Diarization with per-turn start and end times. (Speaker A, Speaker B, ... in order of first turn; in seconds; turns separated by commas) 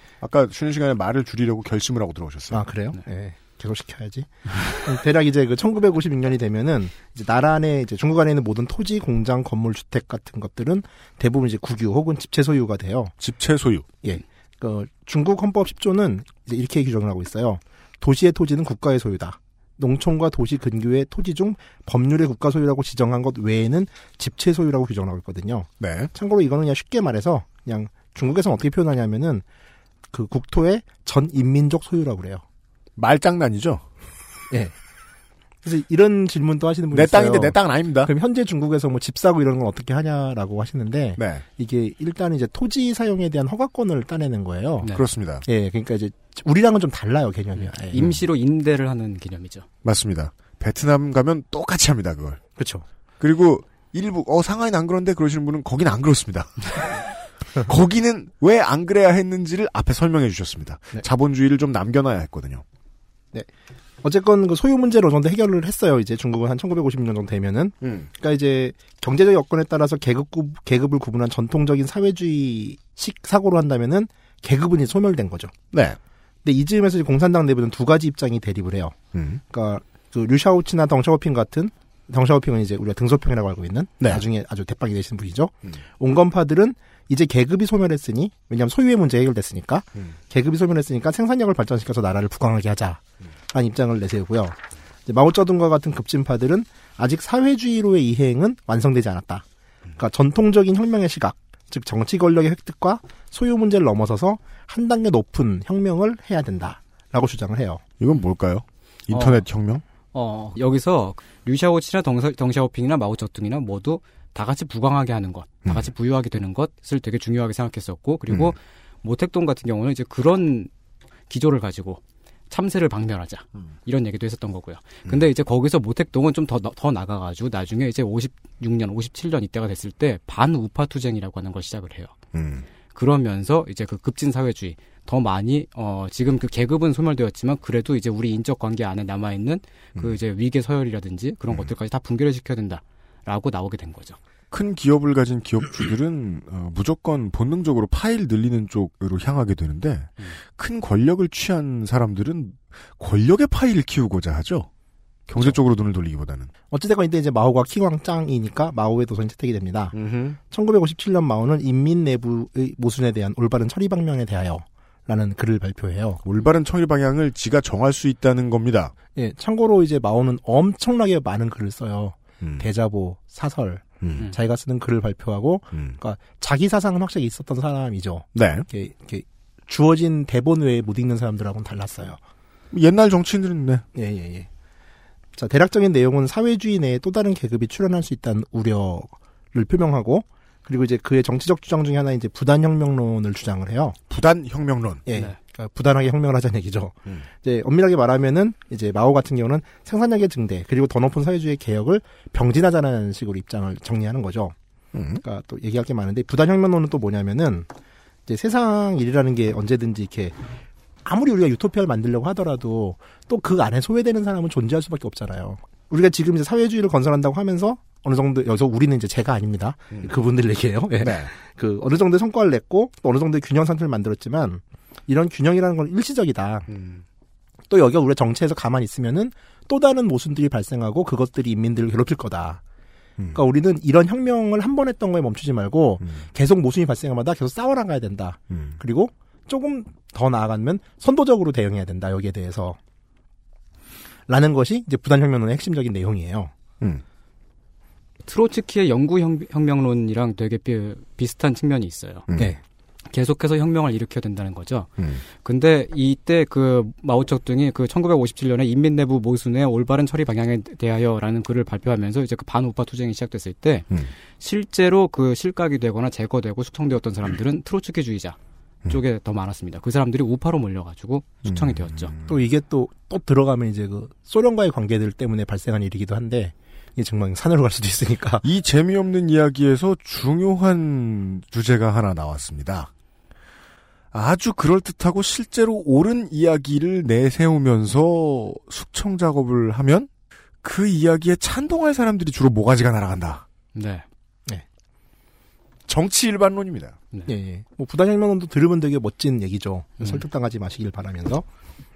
Speaker A: 0.2-2.6, Speaker B: 2.5-13.1, Speaker A: 13.2-13.9, Speaker B: 14.0-29.4, Speaker A: 25.8-26.1, Speaker B: 30.1-32.4, Speaker A: 33.0-33.9, Speaker B: 35.6-44.9, Speaker A: 36.9-38.1, Speaker A: 41.2-41.5, Speaker A: 44.9-45.5, Speaker B: 45.5-48.1, Speaker C: 47.6-49.7, Speaker A: 49.8-52.4, Speaker B: 52.6-52.9, Speaker A: 53.2-57.0, Speaker A: 57.6-62.6, Speaker B: 64.0-75.5, Speaker A: 67.8-68.1, Speaker A: 75.7-76.0, Speaker B: 76.4-79.0, Speaker A: 79.1-79.4, Speaker B: 79.5-99.4, Speaker B: 100.0-107.8, Speaker A: 108.0-109.8, Speaker C: 109.1-109.4, Speaker C: 110.1-120.7, Speaker C: 121.3-132.1, Speaker A: 132.3-132.7, Speaker C: 132.9-144.2, Speaker A: 144.5-154.7, Speaker A: 155.3-156.5, Speaker B: 156.7-159.9, Speaker A: 159.9-160.4, Speaker B: 160.5-166.2, Speaker A: 166.2-168.9, Speaker B: 169.2-182.2, Speaker A: 172.4-172.7, Speaker A: 178.3-178.7, Speaker A: 182.7-183.8, Speaker B: 183.9-184.5, Speaker B: 185.4-194.0, Speaker A: 194.1-195.1, Speaker B: 195.1-204.6, Speaker A: 204.9-205.2, Speaker B: 205.2-207.7, Speaker B: 208.3-210.4, Speaker B: 211.0-226.7, Speaker A: 221.0-221.3, Speaker A: 226.7-227.0, Speaker B: 227.7-232.6, Speaker B: 233.3-242.8, Speaker A: 238.5-238.8, Speaker B: 244.3-246.5, Speaker C: 248.3-252.3, Speaker A: 252.3-252.6, Speaker C: 253.1-263.9, Speaker C: 264.4-268.4, Speaker C: 268.9-272.1, Speaker A: 271.4-272.4, Speaker B: 272.3-278.4, Speaker A: 278.4-282.9, Speaker A: 284.1-290.1, Speaker A: 290.6-293.4, Speaker C: 293.7-294.1, Speaker A: 295.9-297.0, Speaker B: 297.3-301.4